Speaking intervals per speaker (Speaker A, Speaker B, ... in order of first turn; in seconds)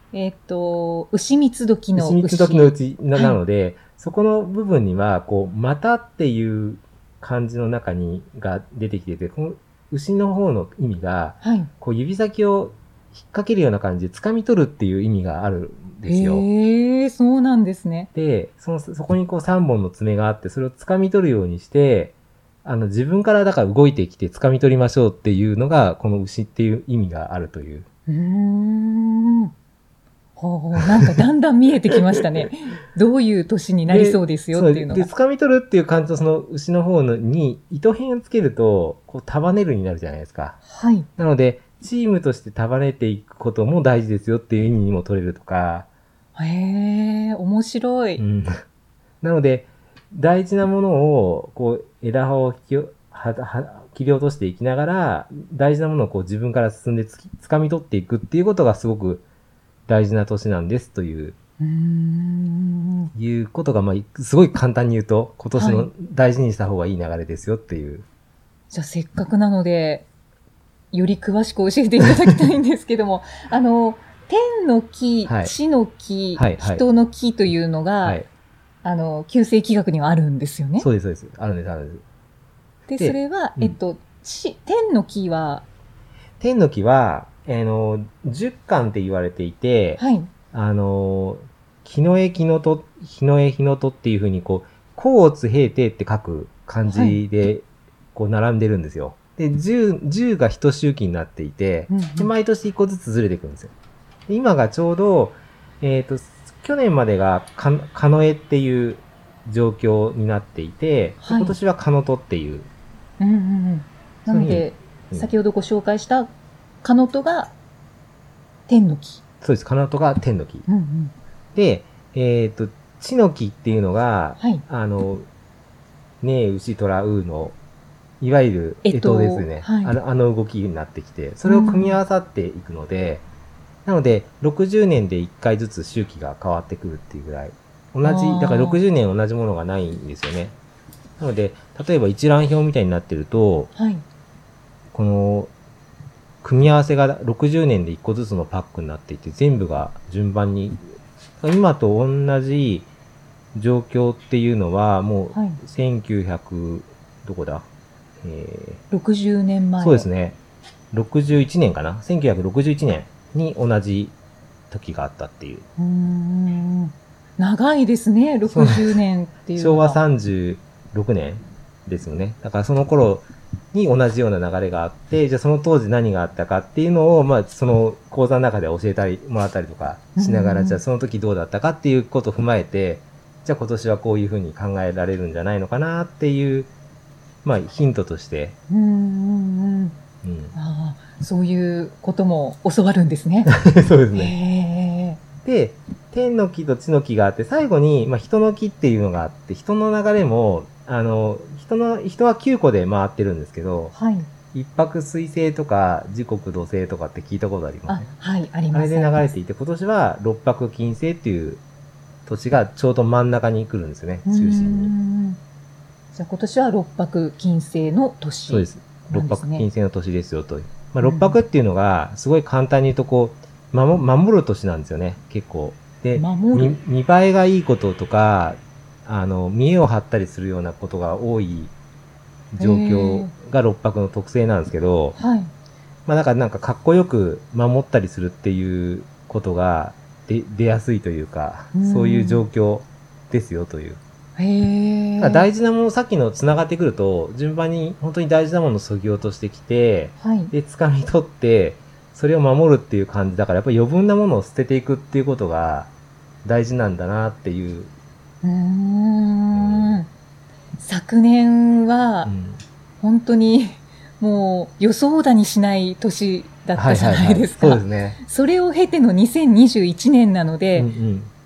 Speaker A: 0.1-3.4, 11.4-11.7, 16.0-18.1, 28.1-29.5, 30.4-35.1, 40.6-41.1, 46.4-48.2, 61.6-63.1, 65.5-65.9, 68.7-70.1, 70.9-78.2, 78.8-80.9, 82.9-85.6, 90.0-90.3, 96.9-97.2, 101.9-102.3, 111.2-111.5, 113.2-116.3, 116.8-117.5, 118.7-119.2, 120.7-121.1, 124.4-124.6, 128.8-129.9, 131.4-132.0, 138.0-138.8, 143.7-144.0, 155.3-155.6, 158.9-160.1, 165.8-170.0, 180.2-180.8, 188.7-189.9, 190.5-193.5, 194.1-195.2, 203.9-204.3, 207.9-209.3, 214.2-215.4, 216.1-219.7, 221.0-221.3, 226.1-226.8, 232.6-233.3, 235.2-235.5, 241.7-242.4, 244.4-245.5, 250.2-250.5, 258.4-260.1, 260.8-262.3, 263.0-270.9
Speaker B: 1.9-16.4, 18.1-27.9, 30.8-31.1, 33.9-40.6, 41.2-45.9, 48.2-48.6, 49.2-59.2, 59.9-61.4, 63.1-68.0, 75.2-75.5, 76.3-76.8, 80.8-82.0, 83.0-83.8, 86.4-103.7, 104.3-112.7, 114.3-115.3, 119.4-120.7, 121.5-125.3, 126.2-127.6, 128.2-133.2, 133.8-140.5, 141.2-143.7, 144.9-145.5, 146.4-152.9, 153.5-157.7, 158.2-158.8, 159.8-160.4, 160.9-164.1, 164.7-165.7, 168.5-169.0, 169.5-186.7, 187.4-188.6, 190.2-190.5, 193.5-194.3, 195.4-203.9, 204.5-208.1, 208.7-211.6, 212.2-214.9, 218.5-231.7, 232.5-235.2, 236.1-244.0, 245.2-255.9, 256.4-257.9, 259.5-260.0, 262.2-262.6, 266.7-268.2, 270.8-271.3